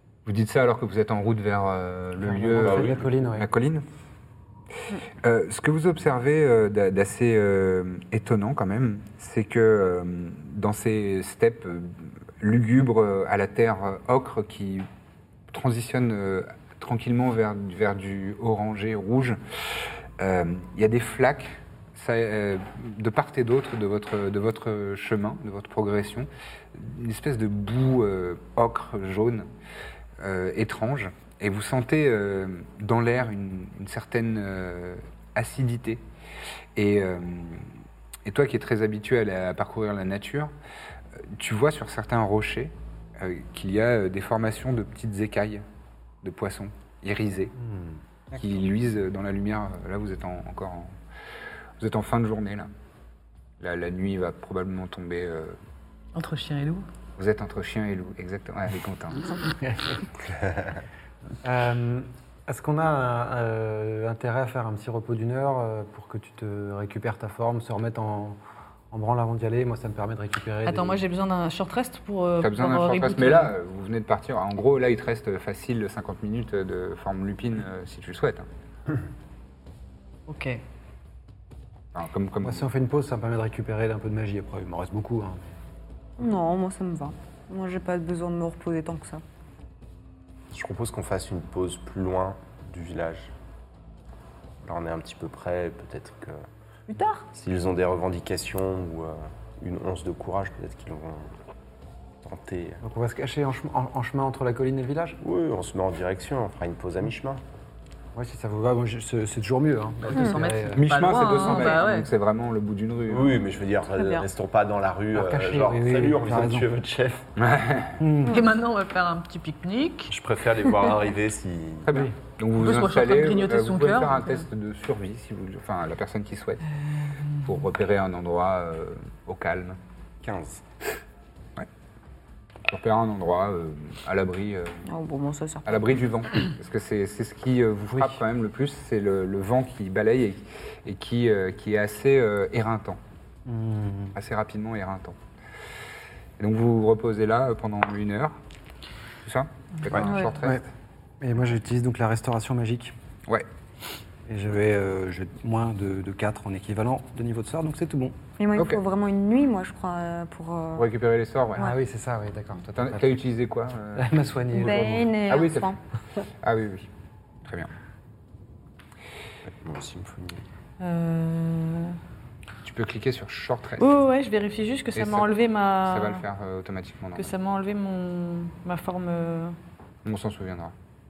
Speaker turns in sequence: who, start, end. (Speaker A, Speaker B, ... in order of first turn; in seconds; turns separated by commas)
Speaker A: 0.2-3.8, Speaker B: 2.2-3.5, Speaker C: 2.5-3.1, Speaker A: 5.2-14.9, Speaker A: 15.5-29.5, Speaker A: 30.2-36.0, Speaker A: 36.7-37.7, Speaker A: 38.2-40.5, Speaker A: 41.3-45.6, Speaker A: 46.2-47.5, Speaker B: 47.6-47.9, Speaker A: 48.3-50.9, Speaker A: 51.8-52.7, Speaker A: 53.6-55.6, Speaker D: 56.1-56.8, Speaker A: 57.2-59.2, Speaker B: 59.5-60.1, Speaker B: 61.4-68.4, Speaker B: 68.9-71.0, Speaker D: 70.7-73.5, Speaker A: 72.4-78.5, Speaker D: 80.3-80.6, Speaker A: 81.9-82.7, Speaker B: 82.4-85.4, Speaker E: 86.2-89.2, Speaker C: 90.5-93.3, Speaker C: 94.6-96.4, Speaker E: 96.9-97.2, Speaker C: 97.3-101.3, Speaker C: 102.2-102.8, Speaker B: 102.8-105.2, Speaker C: 105.2-107.4, Speaker B: 108.1-110.8, Speaker D: 110.1-112.1, Speaker A: 110.7-113.4, Speaker C: 113.1-117.3, Speaker B: 115.1-116.7, Speaker A: 117.4-118.0, Speaker B: 118.0-118.4, Speaker D: 118.3-120.1, Speaker C: 120.1-121.9, Speaker A: 121.8-126.6, Speaker D: 122.6-124.4, Speaker D: 126.9-127.5, Speaker A: 127.4-129.8, Speaker C: 130.2-130.6, Speaker A: 132.6-134.8, Speaker E: 134.8-135.9, Speaker A: 135.7-143.0, Speaker B: 143.4-144.2, Speaker A: 144.1-145.2, Speaker A: 146.4-148.4, Speaker A: 149.2-150.7, Speaker E: 150.1-150.3, Speaker B: 151.2-152.9, Speaker B: 154.3-158.2, Speaker E: 158.4-160.9, Speaker A: 158.6-158.8, Speaker A: 160.8-161.7, Speaker B: 161.6-163.0, Speaker A: 162.7-165.8, Speaker B: 163.9-165.1, Speaker E: 164.5-165.8, Speaker A: 166.4-166.9, Speaker A: 167.4-167.7, Speaker C: 169.4-170.4, Speaker D: 170.8-172.0, Speaker A: 172.6-173.9, Speaker D: 173.8-176.2, Speaker A: 174.9-177.3, Speaker D: 177.2-179.6, Speaker A: 180.0-180.7